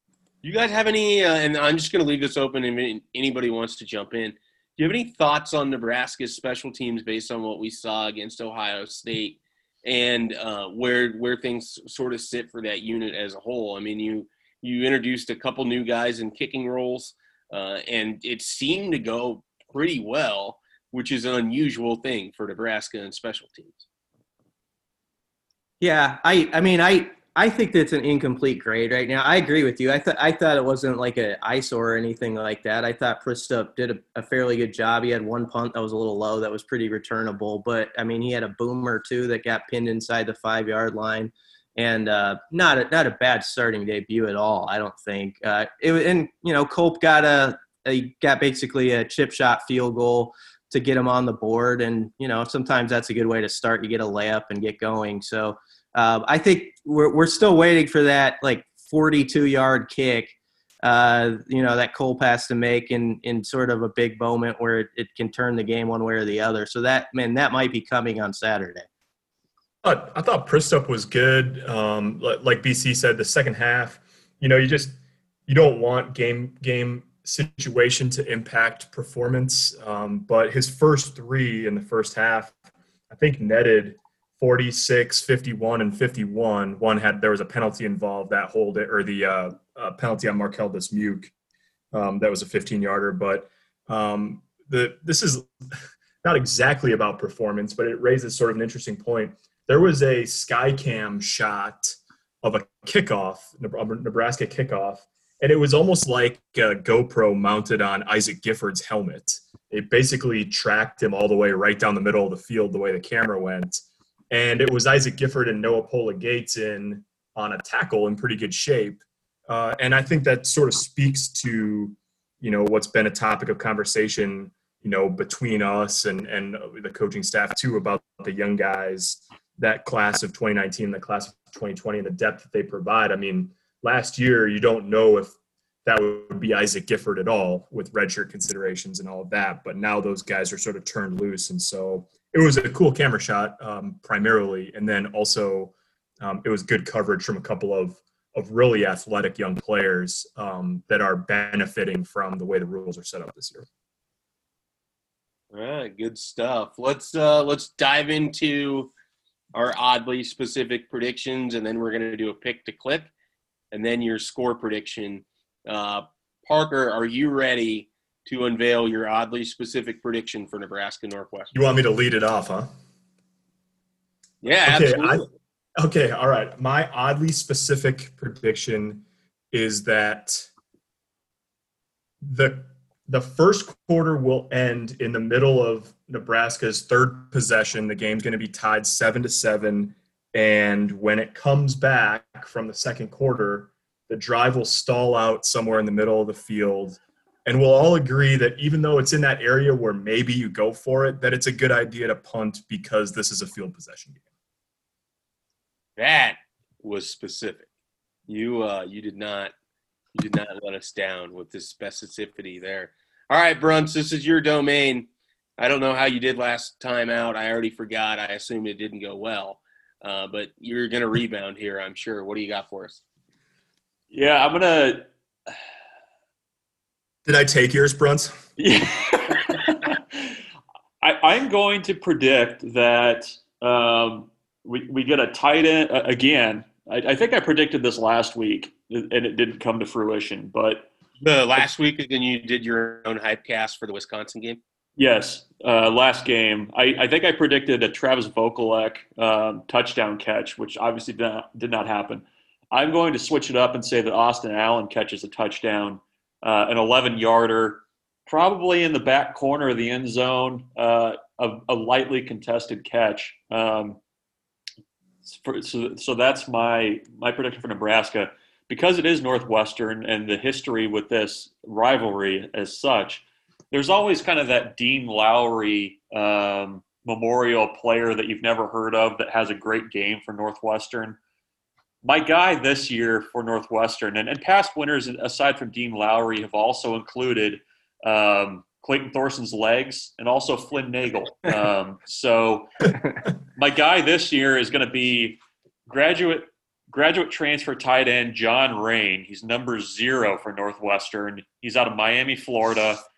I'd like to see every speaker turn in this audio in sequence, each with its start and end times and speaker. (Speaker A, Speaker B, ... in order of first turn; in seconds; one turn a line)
Speaker A: 0.4-23.9
Speaker B: 25.8-68.9
Speaker C: 69.8-82.6
Speaker C: 83.1-91.3
Speaker C: 91.9-95.5
Speaker C: 96.2-153.7
Speaker A: 155.5-158.9
Speaker A: 159.5-163.1
Speaker A: 163.7-171.6
Speaker C: 171.5-172.7
Speaker A: 174.4-175.3
Speaker C: 174.7-180.5
Speaker C: 182.2-204.2
Speaker A: 206.0-207.7
Speaker A: 208.3-209.5
Speaker A: 210.2-223.0
Speaker D: 224.1-225.1
Speaker C: 227.2-228.4
Speaker D: 228.6-230.3
Speaker D: 231.0-240.9
Speaker A: 241.2-244.6
Speaker D: 245.0-264.0
Speaker D: 265.3-281.2
Speaker D: 282.0-293.0
Speaker D: 293.6-303.0